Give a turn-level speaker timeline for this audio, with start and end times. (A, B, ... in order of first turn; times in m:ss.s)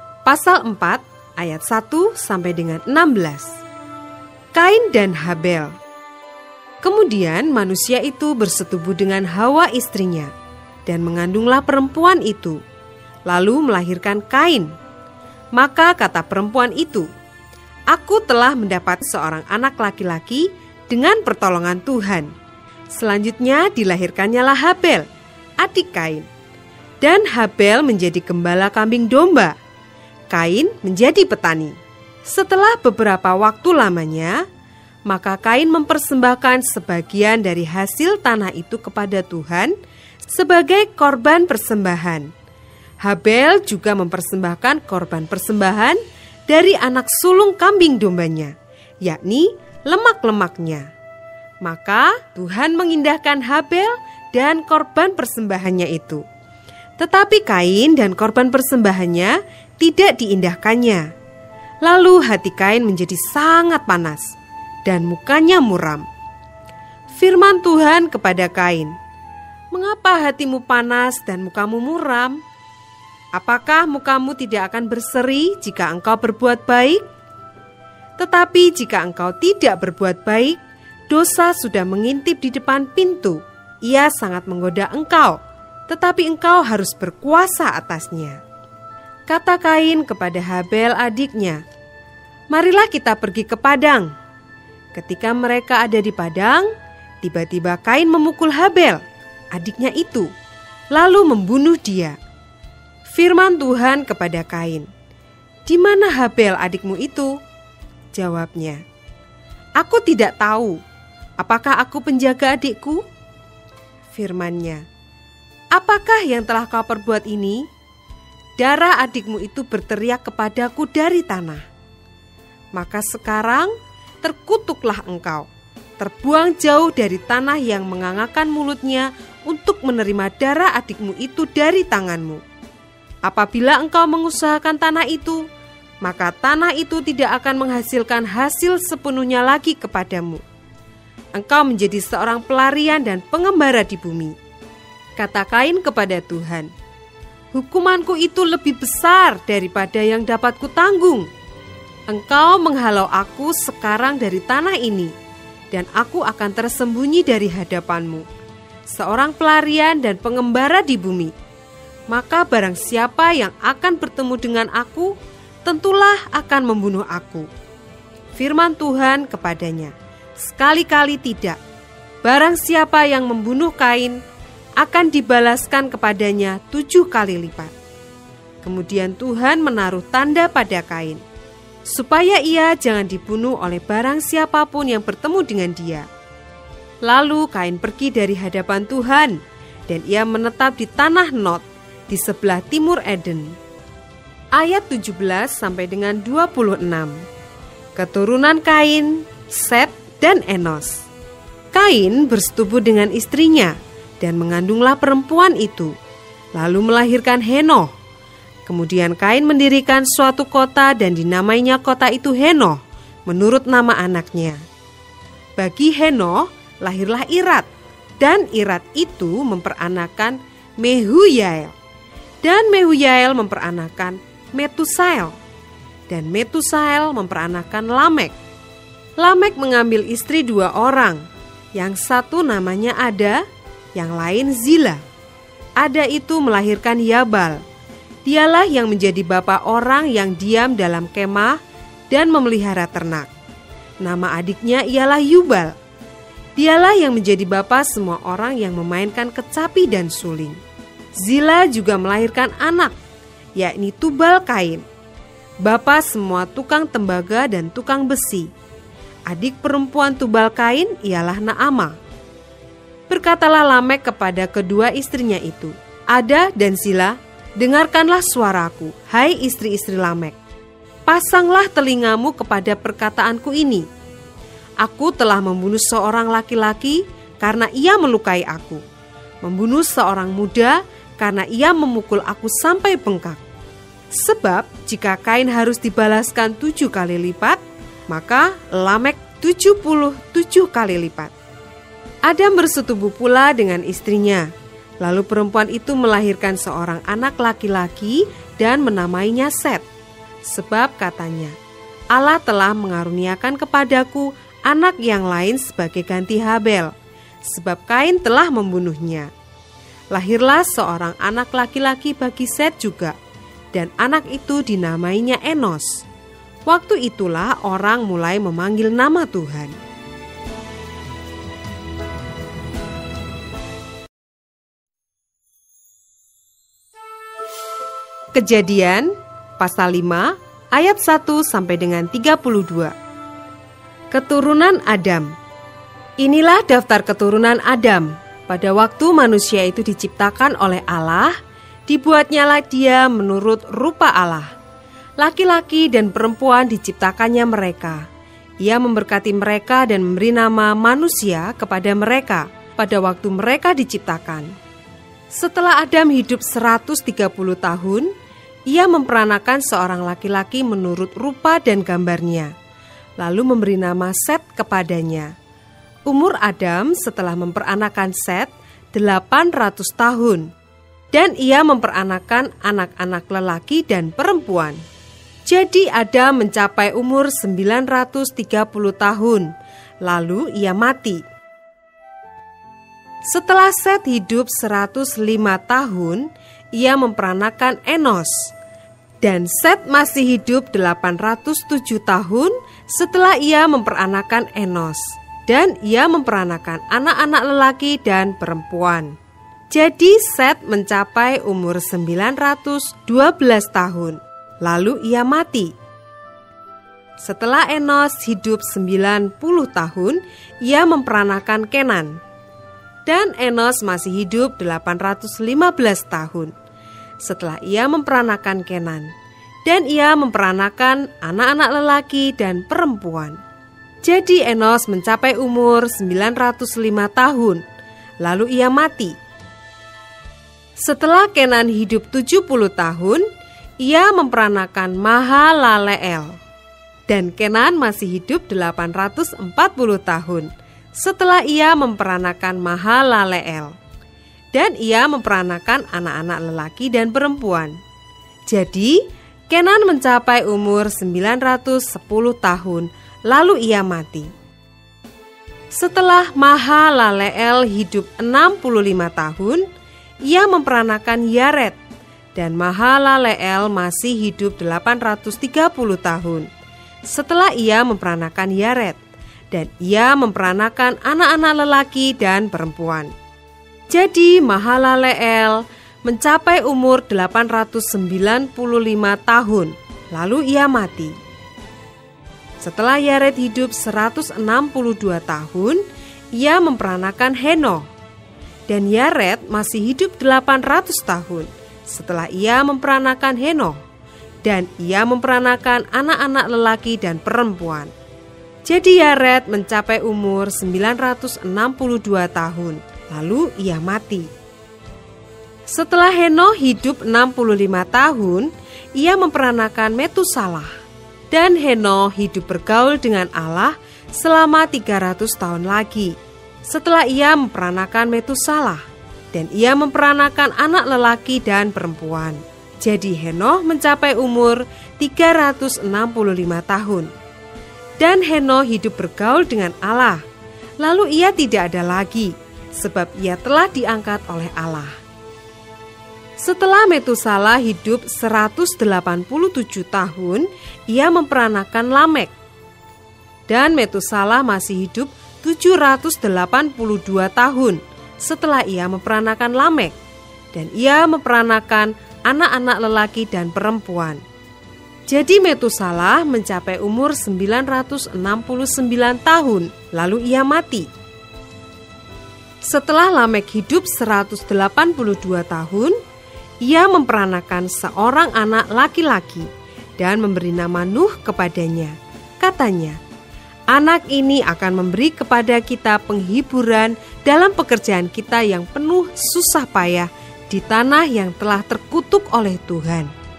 0:00.2-0:03.6 A
0:04.6-0:05.7 A
0:06.8-0:10.3 A
0:10.9-0:12.6 A
0:13.3-0:14.7 A
0:15.6-0:17.1 A
0:17.9-0:22.3 A
0:22.9-0:25.1 A
0:25.6-0:26.3 A
0:27.0-0:29.6 A
0:30.3-0:31.8 A
0:32.3-0:34.4 A
0:35.1-0:39.8 A
0:40.3-0:42.3 A
0:43.0-0:50.9 A
0:51.6-0:56.2 A
0:57.0-1:01.0 A
1:01.8-1:04.3 A
1:04.8-1:06.0 A
1:07.2-1:08.9 A
1:09.7-1:12.4 A
1:13.3-1:17.0 A
1:18.2-1:20.6 A
1:21.1-1:28.4 A
1:29.3-1:31.6 A
1:32.5-1:34.1 A
1:34.9-1:39.0 A
1:39.5-1:40.3 A
1:40.9-1:42.2 A
1:43.2-1:44.9 A
1:45.6-1:47.4 A
1:48.1-1:48.8 A
1:49.8-1:50.8 A
1:51.4-1:53.0 A
1:54.1-1:54.8 A
1:55.7-1:57.7 A
1:58.6-2:01.6 A
2:02.7-2:05.5 A
2:06.0-2:12.4 A
2:13.2-2:15.4 A
2:16.0-2:20.4 A
2:21.3-2:24.4 A
2:25.2-2:26.7 A
2:27.5-2:31.3 A
2:32.1-2:35.1 A
2:35.7-2:38.3 A
2:38.9-2:41.3 A
2:42.1-2:47.5 A
2:48.4-2:51.6 A
2:52.2-2:54.2 A
2:54.8-2:57.7 A
2:58.6-3:01.2 A
3:01.9-3:06.1 A
3:07.0-3:13.6 A
3:14.6-3:17.2 A
3:18.0-3:21.1 A
3:21.7-3:25.9 A
3:26.6-3:27.9 A
3:28.7-3:34.6 A
3:35.6-3:37.7 A
3:38.2-3:41.8 A
3:42.4-3:45.4 A
3:46.1-3:48.3 A
3:49.2-3:51.2 A
3:51.8-3:53.4 A
3:54.0-3:55.0 A
3:55.8-3:57.6 A
3:58.2-4:01.6 A
4:02.1-4:03.3 A
4:04.0-4:05.8 A
4:06.6-4:10.6 A
4:11.2-4:13.0 A
4:13.6-4:14.8 A
4:15.6-4:18.5 A
4:19.3-4:22.0 A
4:23.1-4:30.4 A
4:31.1-4:33.9 A
4:34.8-4:38.8 A
4:39.4-4:43.4 A
4:44.1-4:51.3 A
4:52.3-4:54.5 A
4:55.0-4:59.8 A
5:00.5-5:01.6 A
5:02.1-5:06.9 A
5:07.4-5:09.3 A
5:10.1-5:13.2 A
5:13.7-5:16.0 A
5:16.7-5:19.7 A
5:28.3-5:32.9 A
5:34.1-5:35.3 A
5:36.2-5:41.4 A
5:41.9-5:44.5 A
5:45.2-5:48.0 A
5:48.6-5:54.5 A
5:55.3-5:58.1 A
5:58.7-6:02.5 A
6:03.2-6:05.3 A
6:06.1-6:10.5 A
6:11.1-6:14.8 A
6:15.5-6:19.5 A
6:20.0-6:21.2 A
6:23.3-6:28.5 A
6:29.2-6:39.1 A
6:39.7-6:45.7 A
6:47.2-6:52.2 A
6:53.1-6:56.5 A
6:57.2-6:59.1 A
6:59.6-7:03.4 A
7:04.0-7:07.6 A
7:08.2-7:09.2 A
7:10.8-7:13.3 A
7:13.8-7:16.4 A
7:17.1-7:23.7 A
7:24.5-7:27.8 A
7:28.5-7:34.3 A
7:35.7-7:39.7 A
7:40.2-7:41.8 A
7:42.4-7:46.5 A
7:47.1-7:49.0 A
7:49.5-7:53.1 A
7:53.9-8:01.2 A
8:02.6-8:05.8 A
8:06.3-8:07.9 A
8:08.7-8:13.8 A
8:14.4-8:17.9 A
8:18.7-8:24.3 A
8:25.7-8:30.7 A
8:31.3-8:36.2 A
8:36.7-8:47.1 A
8:48.0-8:50.2 A
8:50.8-8:55.0 A
8:56.4-9:02.3 A
9:03.5-9:10.0 A
9:10.5-9:14.2 A
9:15.1-9:20.9 A
9:22.6-9:26.0 A
9:26.6-9:33.0 A
9:33.7-9:43.1 A